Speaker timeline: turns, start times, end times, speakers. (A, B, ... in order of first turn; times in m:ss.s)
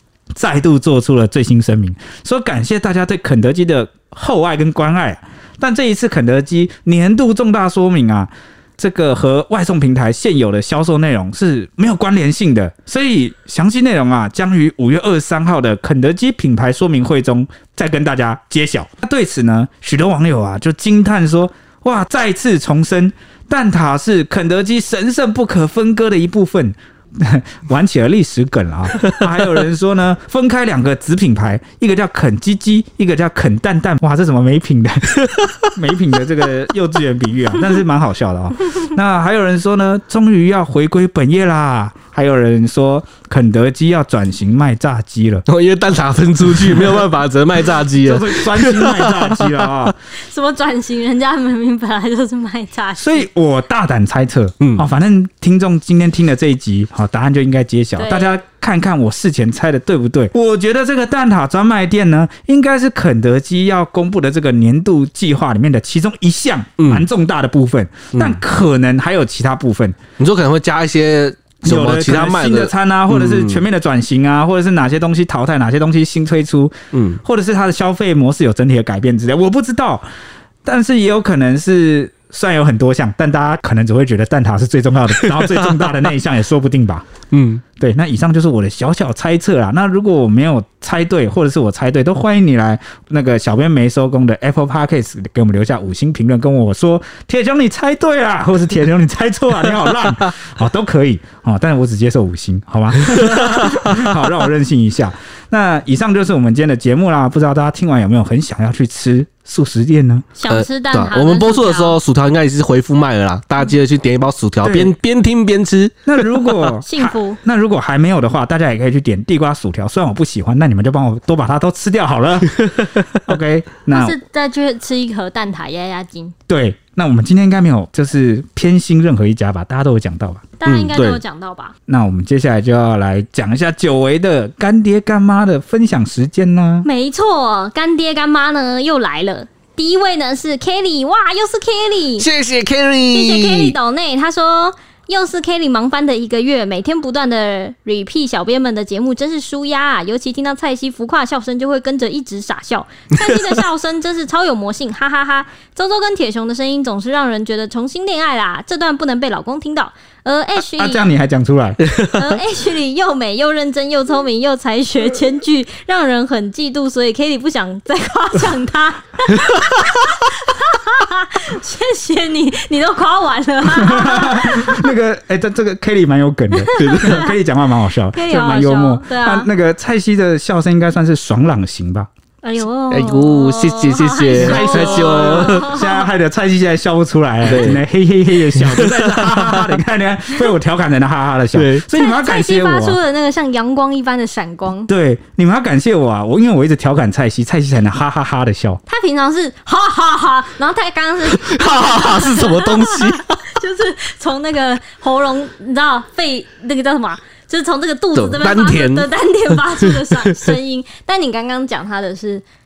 0:00.3-0:45.4 A
0:35.2-0:35.5 B
0:45.5-0:49.9 B
0:48.0-0:49.9 A
0:50.2-0:53.2 C
0:53.0-1:10.0 A
0:58.0-0:58.4 C
1:06.8-1:07.0 B
1:08.1-1:08.4 B
1:10.2-1:13.6 B
1:11.6-1:20.0 A
1:16.9-1:17.2 B
1:20.6-1:27.1 A
1:25.2-1:25.9 B
1:27.3-1:27.6 B
1:27.8-1:50.2 A
1:50.4-1:52.0 C
1:50.5-1:56.0 B
1:54.6-1:54.9 A
1:56.0-2:04.2 A
1:56.8-1:57.4 C
2:03.9-2:06.3 C
2:06.5-2:10.5 A
2:10.6-2:11.7 C
2:10.6-2:11.2 B
2:11.9-2:16.9 A
2:16.8-2:22.3 C
2:22.2-2:23.8 B
2:23.1-2:41.0 C
2:40.7-2:41.8 A
2:41.8-2:42.3 B
2:42.1-2:54.9 C
2:53.8-3:02.1 A
2:56.6-2:57.3 C
2:56.8-2:57.2 B
2:58.1-2:59.5 C
3:02.4-3:06.0 C
3:02.9-3:05.7 B
3:04.4-3:13.0 A
3:07.4-3:07.8 B
3:08.7-3:09.7 B
3:11.5-3:11.8 B
3:11.9-3:14.9 C
3:14.9-3:18.8 A
3:18.8-3:32.4 C
3:21.3-3:23.4 B
3:28.1-3:29.1 B
3:29.6-3:30.4 B